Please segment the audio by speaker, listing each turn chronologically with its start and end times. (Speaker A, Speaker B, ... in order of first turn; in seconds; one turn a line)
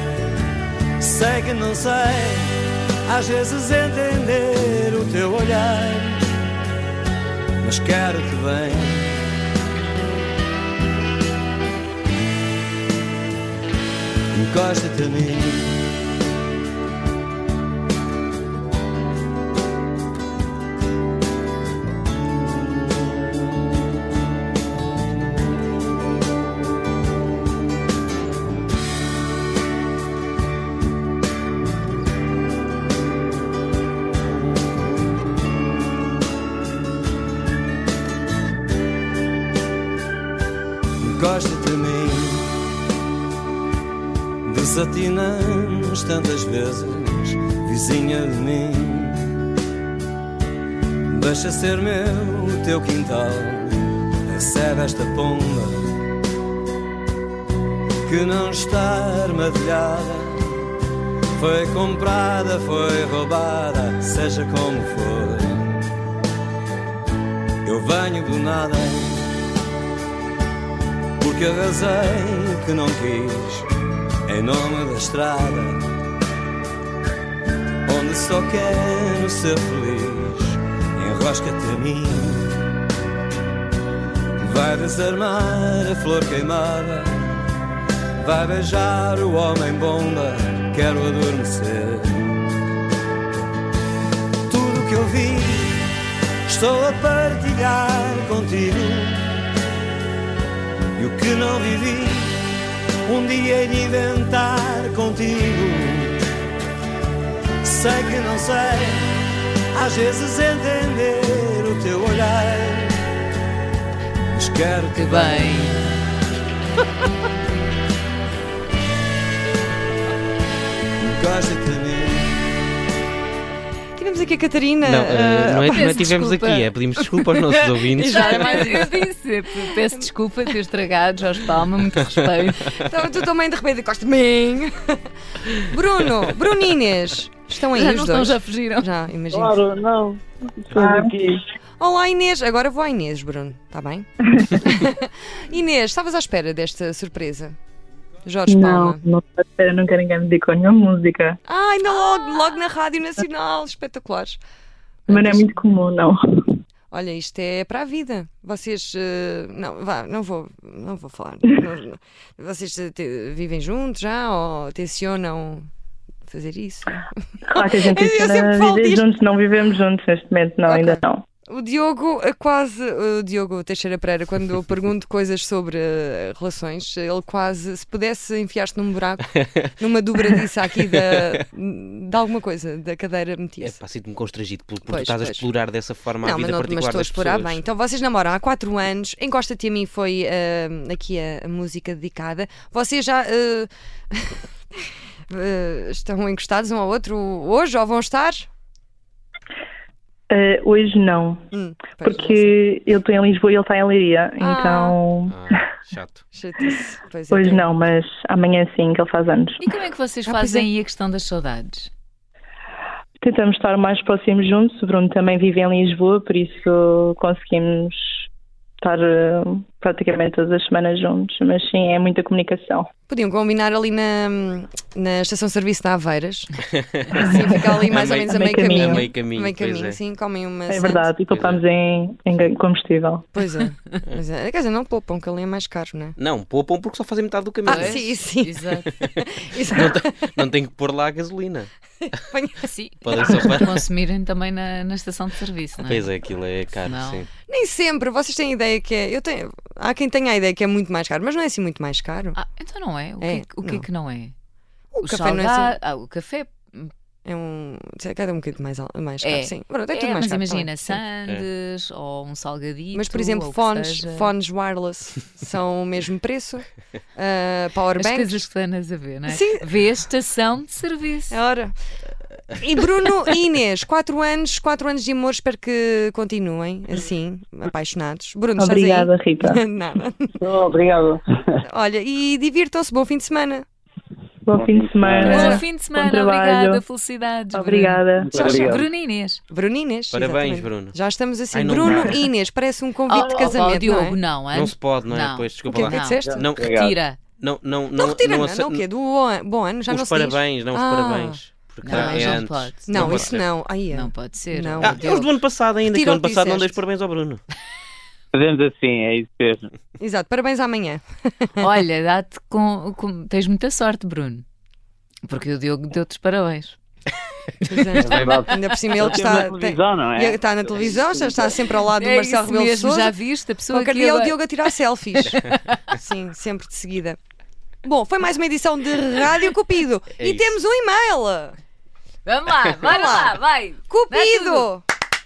Speaker A: 1.0-6.2
Speaker A: 7.6-9.2
Speaker A: 14.3-15.8
Speaker A: 41.0-42.5
Speaker A: 44.4-49.4
Speaker A: 51.1-55.9
Speaker A: 58.0-60.7
Speaker A: 61.4-65.9
Speaker A: 67.7-69.3
Speaker A: 71.2-73.7
Speaker A: 74.3-75.8
Speaker A: 77.9-82.7
Speaker A: 84.4-87.5
Speaker A: 88.2-92.5
Speaker A: 94.5-95.9
Speaker A: 96.5-99.5
Speaker A: 101.0-102.4
Speaker A: 103.0-106.2
Speaker A: 107.6-109.1
Speaker A: 109.7-113.0
Speaker A: 114.3-115.6
Speaker B: 115.0-115.9
Speaker A: 121.0-122.3
Speaker C: 124.0-126.2
Speaker D: 124.8-128.6
Speaker B: 125.7-126.7
Speaker C: 127.8-129.1
Speaker B: 128.0-132.8
Speaker C: 132.8-135.0
Speaker C: 135.5-139.6
Speaker B: 137.7-138.9
Speaker E: 139.3-141.4
Speaker F: 140.8-141.2
Speaker C: 141.8-144.1
Speaker C: 144.6-147.6
Speaker C: 148.2-149.0
Speaker F: 148.5-151.4
Speaker C: 151.5-154.4
Speaker C: 155.1-155.6
Speaker F: 155.1-156.2
Speaker C: 156.9-165.7
Speaker C: 166.3-169.1
Speaker F: 167.5-171.2
Speaker C: 170.7-183.8
Speaker D: 180.9-181.2
Speaker D: 183.6-187.6
Speaker C: 184.9-185.5
Speaker C: 186.2-194.4
Speaker C: 195.3-198.5
Speaker F: 200.3-201.4
Speaker C: 201.5-202.6
Speaker F: 202.0-205.3
Speaker C: 204.4-205.0
Speaker D: 205.3-206.2
Speaker C: 206.3-207.7
Speaker F: 207.3-209.6
Speaker B: 209.6-211.9
Speaker C: 210.3-210.7
Speaker F: 213.2-218.2
Speaker F: 218.8-222.9
Speaker C: 223.1-226.6
Speaker C: 227.1-231.1
Speaker F: 227.2-229.1
Speaker D: 227.9-230.0
Speaker F: 230.7-233.3
Speaker D: 231.3-231.6
Speaker C: 233.3-236.2
Speaker D: 236.2-238.0
Speaker C: 237.7-240.3
Speaker B: 237.7-238.8
Speaker D: 239.7-241.7
Speaker C: 242.3-242.6
Speaker B: 242.6-246.1
Speaker D: 243.0-243.8
Speaker C: 243.2-243.5
Speaker D: 245.8-247.3
Speaker B: 246.8-247.2
Speaker C: 247.5-252.4
Speaker B: 252.3-254.3
Speaker C: 253.2-253.9
Speaker C: 254.9-255.8
Speaker B: 255.0-256.9
Speaker C: 257.2-261.0
Speaker B: 259.2-264.3
Speaker C: 262.9-268.4
Speaker B: 268.0-271.4
Speaker C: 269.3-269.6
Speaker C: 271.3-271.7
Speaker C: 272.6-280.4
Speaker F: 278.6-279.6
Speaker E: 280.4-281.2
Speaker C: 281.6-283.7
Speaker F: 284.4-286.8
Speaker E: 284.7-285.4
Speaker C: 285.2-285.6
Speaker B: 285.2-289.4
Speaker F: 287.5-288.4
Speaker E: 288.2-288.9
Speaker C: 288.3-288.8
Speaker C: 289.5-294.2
Speaker D: 290.1-291.0
Speaker D: 291.5-292.2
Speaker E: 291.8-292.1
Speaker B: 293.1-297.2
Speaker E: 293.2-293.6
Speaker D: 294.5-296.8
Speaker C: 295.7-296.5
Speaker E: 296.2-296.9
Speaker D: 297.4-298.8
Speaker C: 297.9-305.2
Speaker D: 299.9-303.5
Speaker B: 301.8-303.3
Speaker B: 303.9-305.3
Speaker D: 304.8-307.4
Speaker C: 305.9-306.9
Speaker E: 308.3-309.7
Speaker C: 310.0-311.5
Speaker B: 311.6-314.4
Speaker B: 315.3-316.8
Speaker C: 317.6-323.2
Speaker E: 318.0-321.5
Speaker B: 318.0-318.5
Speaker B: 321.9-324.4
Speaker C: 323.7-327.2
Speaker B: 325.3-325.8
Speaker C: 327.9-331.6
Speaker D: 330.2-330.6
Speaker B: 332.2-334.7
Speaker C: 332.8-333.4
Speaker C: 333.9-334.8